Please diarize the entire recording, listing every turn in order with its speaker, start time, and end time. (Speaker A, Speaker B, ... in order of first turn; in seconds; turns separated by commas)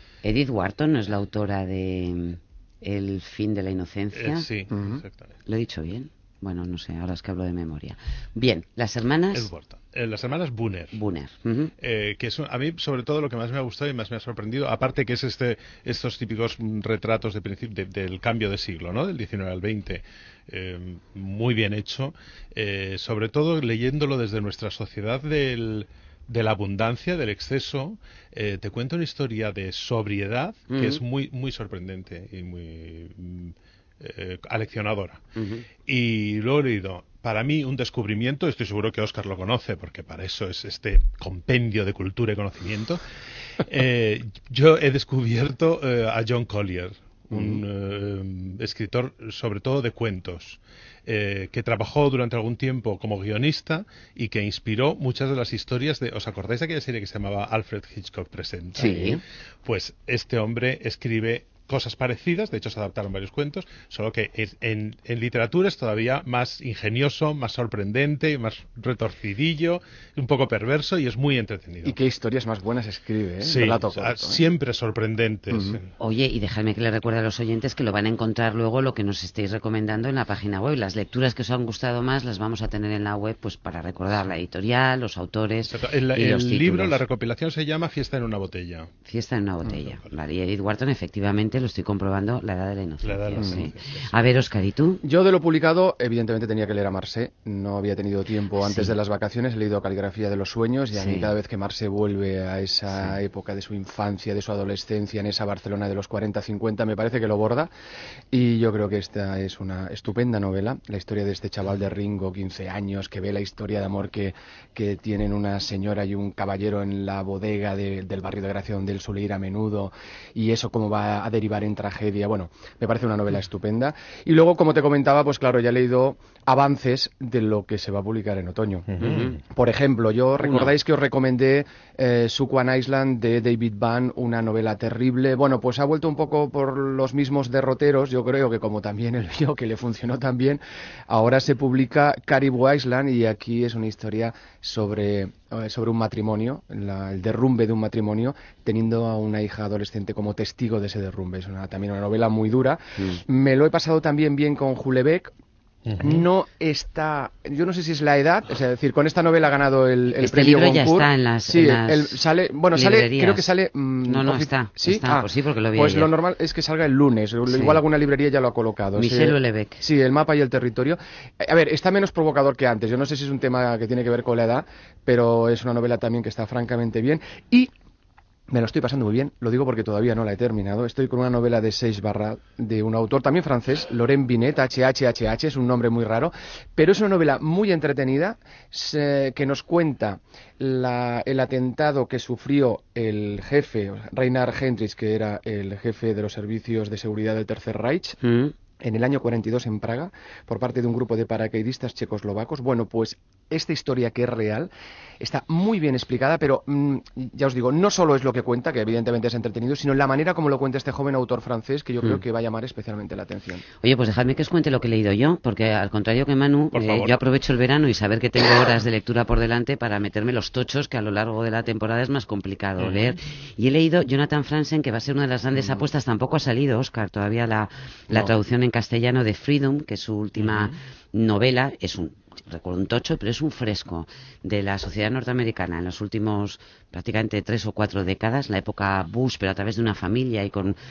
Speaker A: 0.2-4.5, Speaker B: 4.1-5.3, Speaker C: 4.7-5.0, Speaker A: 5.5-9.5, Speaker B: 9.3-11.0, Speaker A: 10.9-11.7, Speaker B: 11.8-35.2, Speaker A: 30.7-31.0, Speaker A: 35.3-35.7, Speaker B: 35.8-43.0, Speaker B: 43.6-72.0, Speaker C: 47.3-47.6, Speaker A: 58.7-59.2, Speaker C: 71.8-74.4, Speaker B: 73.4-75.8, Speaker C: 75.5-75.8, Speaker A: 76.0-87.0, Speaker B: 85.7-88.9, Speaker A: 89.0-95.0, Speaker B: 89.8-90.1, Speaker B: 93.0-94.2, Speaker C: 93.3-93.7, Speaker C: 95.0-107.7, Speaker A: 98.6-99.0, Speaker A: 100.9-101.3, Speaker A: 102.9-103.2, Speaker C: 108.3-128.9, Speaker B: 128.9-129.3, Speaker A: 129.0-129.4, Speaker C: 129.5-155.3, Speaker A: 130.4-130.7, Speaker A: 152.9-153.2, Speaker B: 155.8-156.2, Speaker C: 156.0-177.7, Speaker A: 160.2-162.2, Speaker A: 162.7-163.5, Speaker A: 164.1-166.1, Speaker A: 167.4-167.8, Speaker A: 168.9-169.8, Speaker C: 178.5-198.2, Speaker A: 198.2-198.5, Speaker C: 198.8-204.7, Speaker C: 205.2-213.6, Speaker A: 213.8-240.8, Speaker B: 216.7-217.2, Speaker B: 222.8-223.2, Speaker B: 230.4-230.7